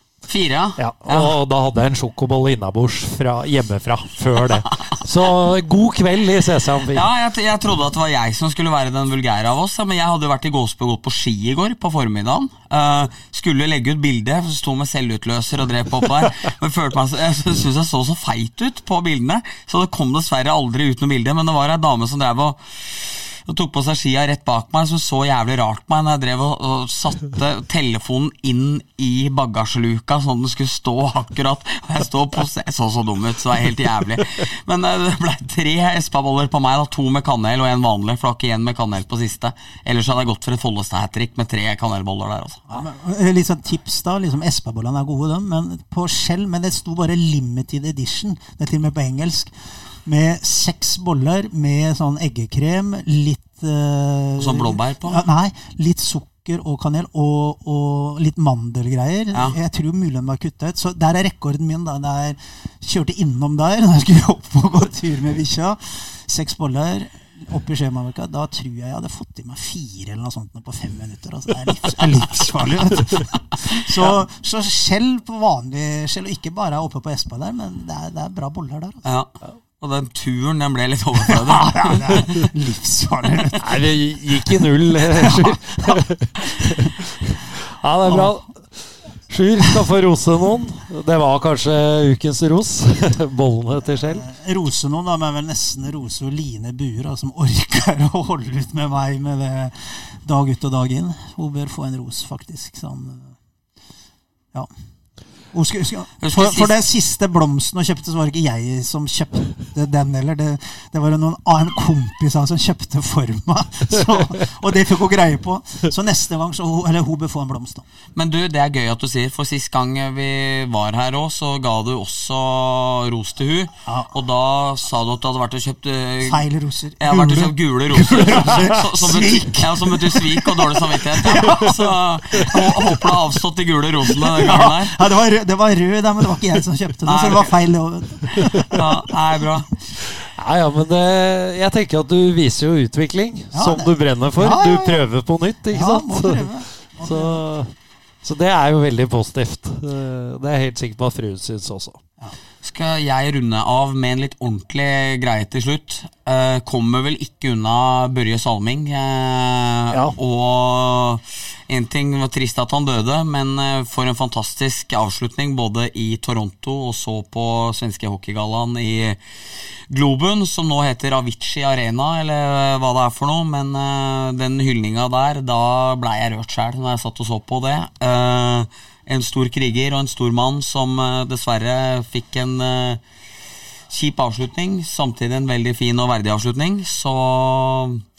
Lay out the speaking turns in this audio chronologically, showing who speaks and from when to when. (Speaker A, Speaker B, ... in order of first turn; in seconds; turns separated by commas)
Speaker A: 0.3-1.3, Speaker B: 0.8-7.0, Speaker A: 6.9-42.7, Speaker C: 42.7-79.0, Speaker A: 54.4-55.2, Speaker A: 79.0-82.4, Speaker C: 81.3-83.8, Speaker B: 83.6-94.2, Speaker C: 85.0-86.0, Speaker C: 88.0-88.4, Speaker C: 93.8-103.4, Speaker C: 105.5-117.9, Speaker A: 106.2-106.7, Speaker A: 118.1-126.4, Speaker C: 123.9-124.1, Speaker C: 126.2-133.1, Speaker A: 127.0-134.9, Speaker C: 134.3-139.1, Speaker A: 137.1-137.5, Speaker A: 138.7-139.7, Speaker B: 140.1-146.5, Speaker C: 143.5-145.1, Speaker C: 145.7-147.4, Speaker B: 147.0-152.0, Speaker A: 152.6-169.2, Speaker B: 159.9-160.2, Speaker A: 169.9-183.0, Speaker A: 183.9-188.0